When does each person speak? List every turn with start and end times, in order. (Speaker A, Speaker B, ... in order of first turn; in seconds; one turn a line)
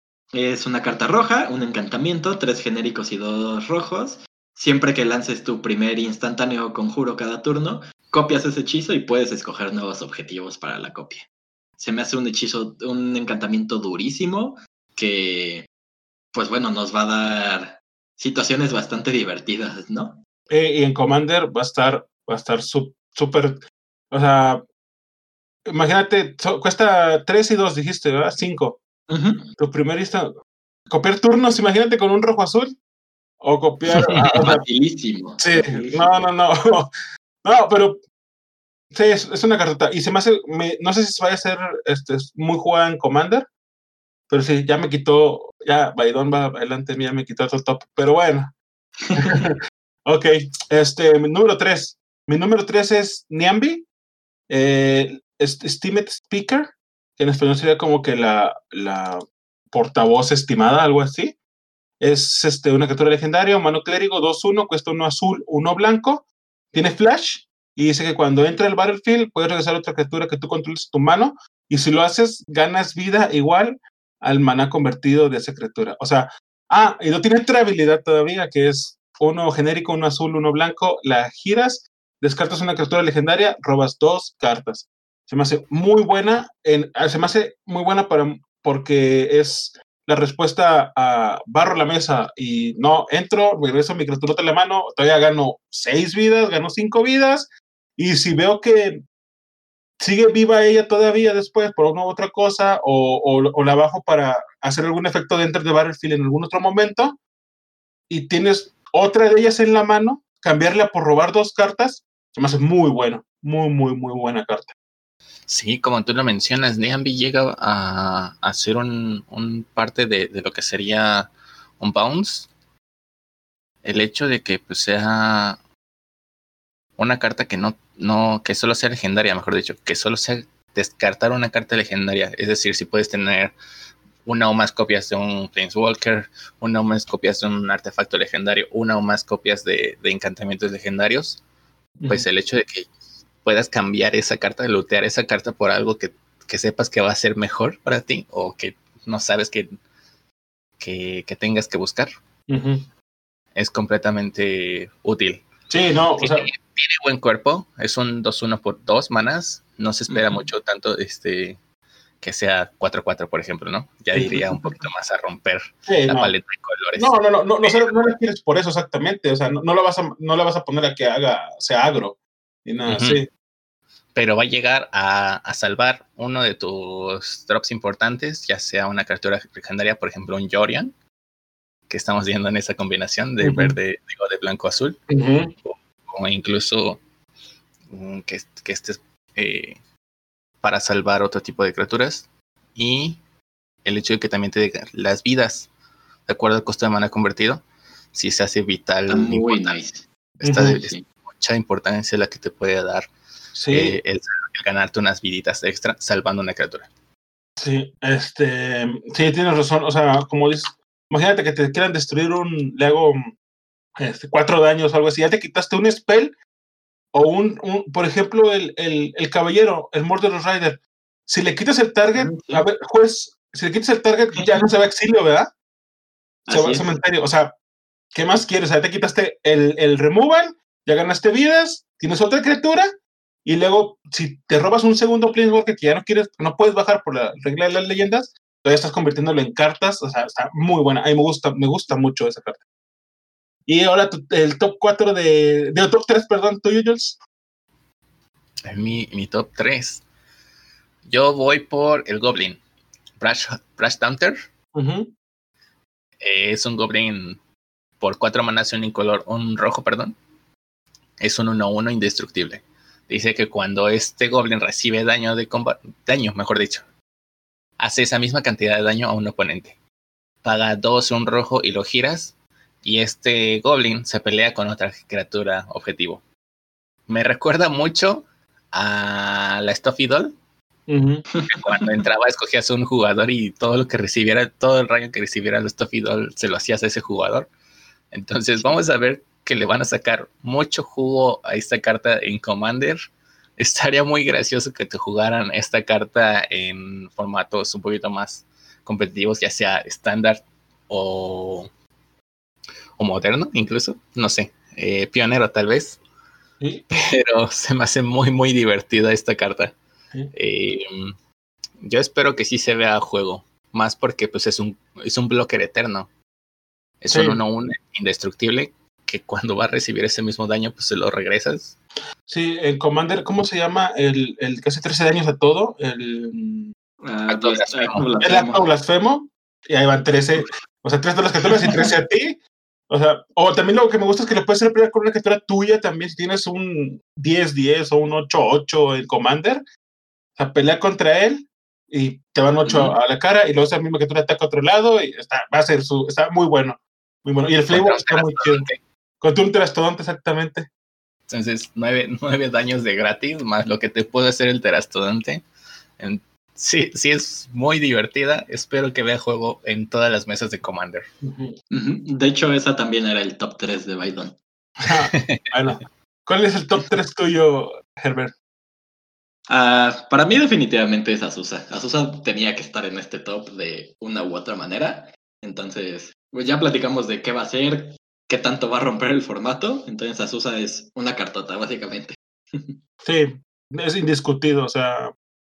Speaker A: 0.3-11.3
Speaker A: 11.8-15.7
Speaker A: 16.3-20.2
Speaker B: 20.5-24.6
Speaker B: 25.7-28.8
Speaker A: 29.1-29.5
Speaker B: 29.6-30.3
Speaker B: 30.9-32.8
Speaker B: 33.4-34.6
Speaker A: 34.0-36.1
Speaker B: 35.4-36.9
Speaker B: 37.4-38.0
Speaker B: 38.9-43.5
Speaker B: 44.3-48.5
Speaker A: 49.1-49.4
Speaker B: 49.1-53.9
Speaker B: 54.5-61.4
Speaker B: 62.0-99.0
Speaker B: 100.0-107.2
Speaker B: 108.1-114.7
Speaker C: 115.5-122.5
Speaker C: 123.8-125.6
Speaker C: 127.0-133.6
Speaker C: 134.2-141.4
Speaker B: 142.0-142.3
Speaker C: 142.1-142.9
Speaker C: 143.4-149.7
Speaker C: 150.8-152.1
Speaker B: 152.5-152.9
Speaker C: 153.6-155.4
Speaker B: 155.7-156.5
Speaker C: 156.2-161.6
Speaker A: 160.1-160.4
Speaker C: 162.2-168.1
Speaker B: 164.1-164.4
Speaker A: 164.4-164.9
Speaker B: 165.9-166.3
Speaker B: 167.0-173.3
Speaker C: 172.9-173.2
Speaker C: 174.2-180.9
Speaker C: 181.9-185.0
Speaker B: 183.4-183.8
Speaker B: 185.1-185.5
Speaker C: 185.7-187.0
Speaker C: 187.9-189.8
Speaker C: 190.6-193.2
Speaker C: 193.8-195.7
Speaker C: 196.3-199.8
Speaker A: 199.1-200.1
Speaker C: 200.4-203.1
Speaker B: 200.4-200.8
Speaker A: 200.7-201.0
Speaker B: 203.6-204.0
Speaker C: 203.7-206.9
Speaker B: 207.6-213.3
Speaker B: 214.0-216.3
Speaker B: 217.1-225.5
Speaker A: 222.1-222.6
Speaker A: 226.5-226.9
Speaker B: 226.5-227.5
Speaker B: 228.1-232.9
Speaker B: 233.4-242.6
Speaker B: 243.7-247.2
Speaker C: 248.7-250.0
Speaker C: 251.1-252.6
Speaker C: 253.2-254.4
Speaker B: 254.7-255.1
Speaker C: 256.2-257.4
Speaker C: 258.0-260.2
Speaker C: 261.2-266.9
Speaker C: 267.8-269.8
Speaker C: 270.4-276.2
Speaker C: 277.1-280.4
Speaker B: 280.9-281.3
Speaker A: 281.4-282.1
Speaker C: 281.5-287.5
Speaker C: 288.1-301.7
Speaker C: 303.0-306.0
Speaker B: 306.6-307.1
Speaker C: 306.9-309.8
Speaker C: 310.3-311.1
Speaker C: 311.8-316.1
Speaker C: 317.0-321.8
Speaker B: 317.1-317.4
Speaker B: 322.3-326.7
Speaker A: 327.0-328.6
Speaker C: 327.3-328.1
Speaker B: 328.2-339.6
Speaker A: 331.5-331.9
Speaker B: 340.4-348.7
Speaker A: 342.7-342.9
Speaker C: 347.7-348.8
Speaker B: 349.2-350.7
Speaker C: 351.3-355.4
Speaker C: 356.0-361.1
Speaker B: 361.2-361.5
Speaker A: 361.7-364.4
Speaker B: 364.8-368.3
Speaker C: 365.1-365.5
Speaker A: 369.5-382.8
Speaker B: 383.0-385.1